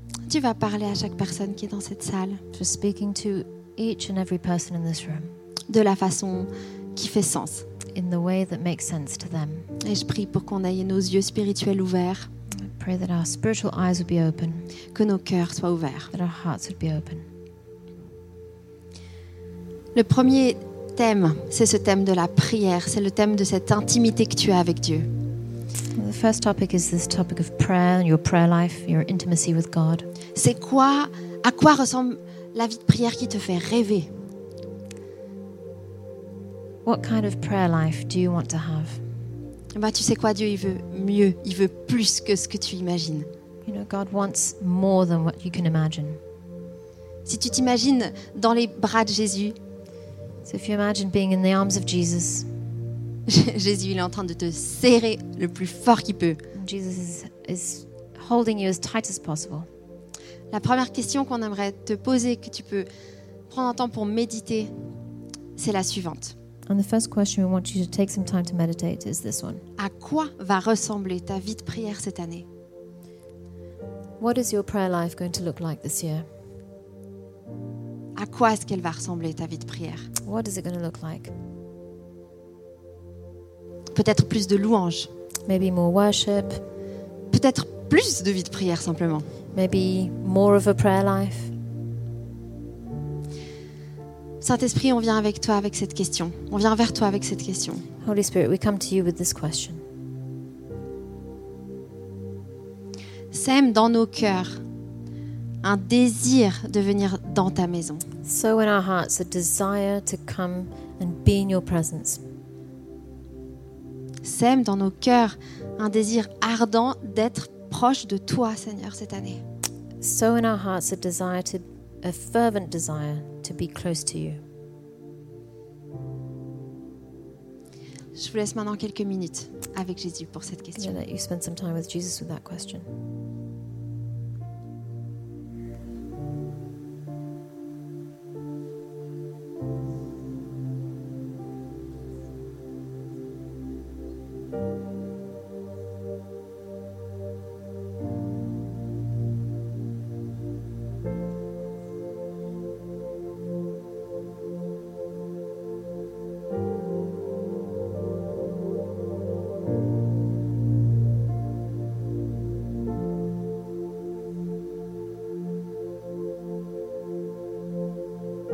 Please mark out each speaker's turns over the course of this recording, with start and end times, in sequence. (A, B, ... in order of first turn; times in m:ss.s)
0:00.3-0:02.4 A
0:02.5-0:05.3 B
0:05.7-0:07.6 A
0:07.9-0:09.7 B
0:09.8-0:12.3 A
0:12.6-0:14.7 B
0:14.9-0:16.1 A
0:16.1-0:17.2 B
0:19.9-0:25.1 A
0:25.9-0:30.1 B
0:30.3-0:34.1 A
0:36.8-0:39.0 B
0:39.7-0:43.3 A
0:43.6-0:46.2 B
0:47.2-0:49.6 A
0:50.4-0:52.5 B
0:53.3-0:56.4 A
0:56.5-0:59.7 B
1:00.5-1:02.9 A
1:03.5-1:04.7 A
1:05.6-1:06.3 A
1:06.7-1:09.6 B
1:09.8-1:12.4 A
1:14.2-1:16.3 B
1:18.2-1:20.1 A
1:20.2-1:21.3 B
1:23.9-1:25.1 A
1:25.5-1:26.6 B
1:27.3-1:29.3 A
1:29.5-1:31.5 B
1:34.4-1:37.8 A
1:38.0-1:39.8 B
1:43.3-1:44.6 A
1:45.6-1:48.0 A
1:48.2-1:52.2 B
1:54.2-1:59.4 A
2:00.0-2:04.4 B
2:08.2-2:11.0 A
2:10.8-2:12.9 B